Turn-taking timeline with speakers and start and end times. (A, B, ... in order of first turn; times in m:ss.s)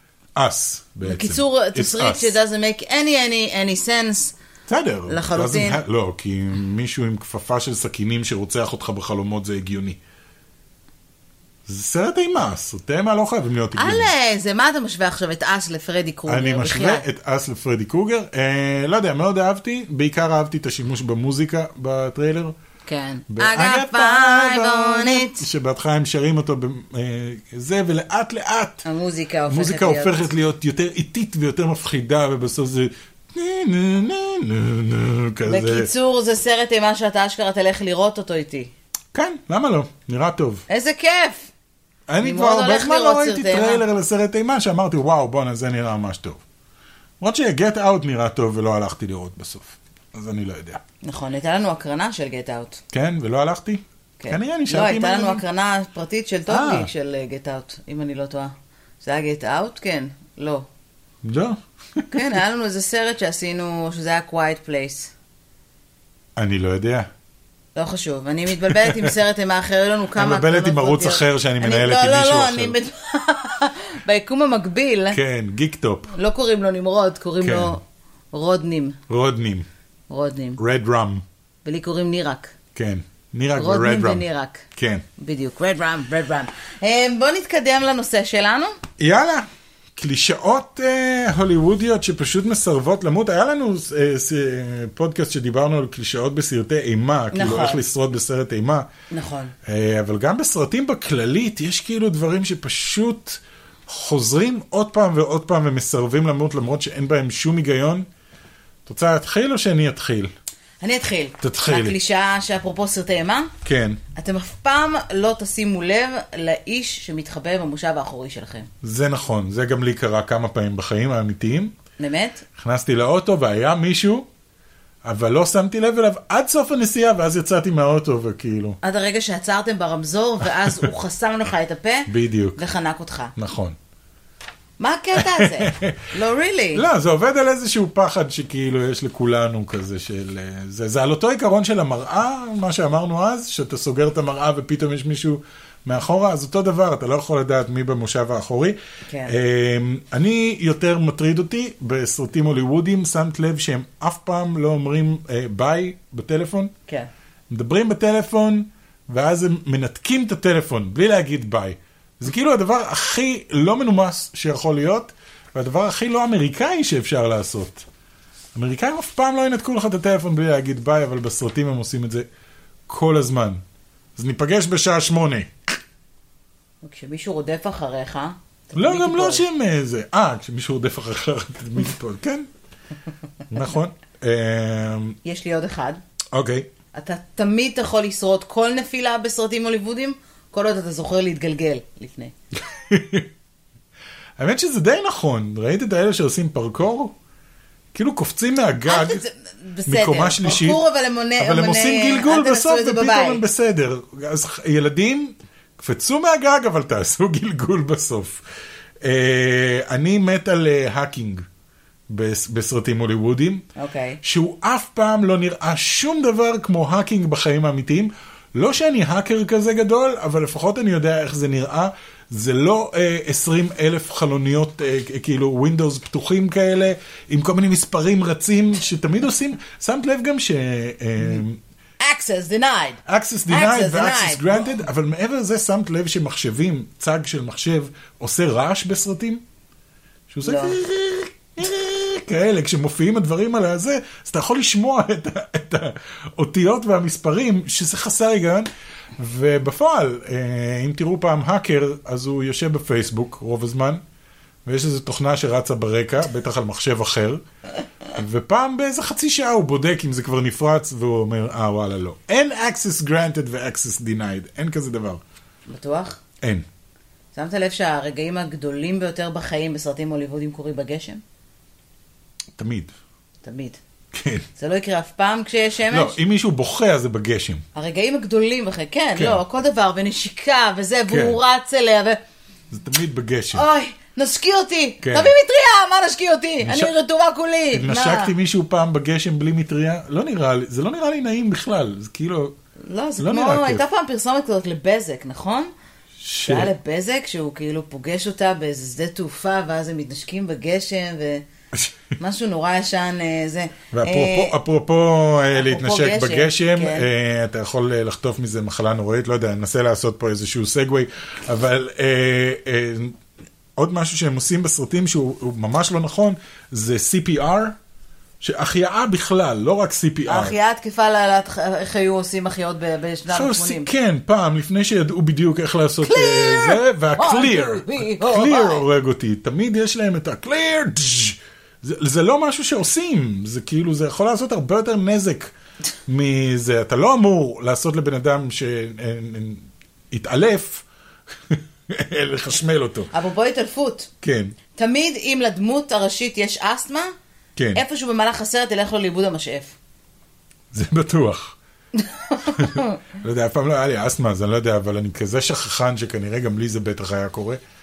0:00.4-0:02.4 A
0:01.0-0:04.3 B
0:04.7-0:10.0 A
0:05.1-0:05.8 B
0:11.7-0:14.1 A
0:13.8-0:17.0 B
0:16.3-0:22.5 A
0:22.9-0:25.4 B
0:23.3-0:28.8 A
0:28.8-0:30.2 B
0:29.5-0:35.9 A
0:35.4-0:38.7 B
0:39.1-0:40.6 A
0:40.7-0:41.5 B
0:42.1-0:46.4 A
0:42.2-0:43.8 B
0:47.2-0:50.8 A
0:51.0-0:52.8 B
0:52.9-0:55.4 A
0:54.2-1:00.7 B
0:56.5-0:56.9 A
1:01.2-1:02.3 A
1:02.1-1:05.1 B
1:06.4-1:07.1 A
1:07.7-1:15.2 B
1:08.6-1:09.1 A
1:10.2-1:12.8 A
1:15.1-1:16.1 A
1:16.1-1:19.0 B
1:17.4-1:17.7 A
1:19.1-1:19.7 A
1:20.1-1:20.6 B
1:20.6-1:21.2 A
1:21.6-1:22.5 B
1:22.7-1:24.2 A
1:23.6-1:24.6 B
1:24.8-1:25.0 A
1:25.2-1:28.8 B
1:29.0-1:38.9 A
1:37.3-1:37.8 B
1:39.1-1:39.5 B
1:39.6-1:48.1 A
1:48.8-1:50.3 A
1:50.8-1:53.5 B
1:51.4-1:52.0 A
1:53.6-1:54.0 A
1:54.1-1:58.7 B
1:58.8-2:01.7 A
2:02.0-2:02.4 B
2:02.6-2:04.3 A
2:05.0-2:08.8 A
2:08.8-2:13.3 B
2:10.6-2:10.9 A
2:12.1-2:12.6 A
2:13.4-2:13.8 A
2:14.8-2:16.8 B
2:15.2-2:16.1 A
2:16.7-2:36.7 A
2:29.1-2:29.3 B
2:37.5-2:47.8 A
2:48.5-2:52.2 A
2:52.9-2:53.6 A
2:54.2-2:55.5 A
2:56.8-2:59.4 B
2:58.7-3:02.5 A
3:03.5-3:05.2 A
3:05.2-3:06.0 B
3:06.3-3:06.7 A
3:06.9-3:12.3 B
3:12.6-3:13.3 A
3:14.4-3:17.1 A
3:17.9-3:19.2 A
3:18.8-3:23.4 B
3:19.8-3:20.8 A
3:21.4-3:28.4 A
3:29.0-3:31.4 A
3:32.1-3:33.6 A
3:33.8-3:34.2 B
3:34.2-3:51.6 A
3:52.0-3:54.7 B
3:53.0-3:59.4 A
4:00.3-4:14.0 A
4:00.4-4:00.8 B
4:14.6-4:17.4 A
4:18.1-4:25.2 A
4:25.7-4:26.2 B
4:27.3-4:31.2 B
4:32.6-4:32.9 A
4:33.4-4:33.8 B
4:34.1-4:34.4 A
4:34.6-4:36.2 B
4:35.9-4:37.6 A
4:37.7-4:42.2 B
4:39.2-4:39.4 A
4:41.1-4:41.4 A
4:42.7-4:43.7 A
4:43.5-4:48.3 B
4:45.0-4:45.3 A
4:46.6-4:46.9 A
4:47.7-4:52.5 A
4:52.9-4:55.7 B
4:53.2-4:53.8 A
4:56.2-4:56.7 A
4:56.4-5:01.4 B
5:02.2-5:04.6 B
5:03.9-5:13.2 A
5:05.5-5:07.0 B
5:13.8-5:17.8 A
5:18.4-5:20.6 A
5:20.2-5:23.9 B
5:23.3-5:35.5 A
5:26.0-5:28.8 B
5:36.1-5:40.8 A
5:41.4-5:43.1 A
5:43.1-5:44.1 B
5:44.2-5:44.6 A
5:44.8-5:47.1 B
5:47.6-5:47.8 A
5:47.7-5:49.8 B
5:50.7-5:51.6 A
5:51.9-5:53.0 B
5:52.5-5:57.6 A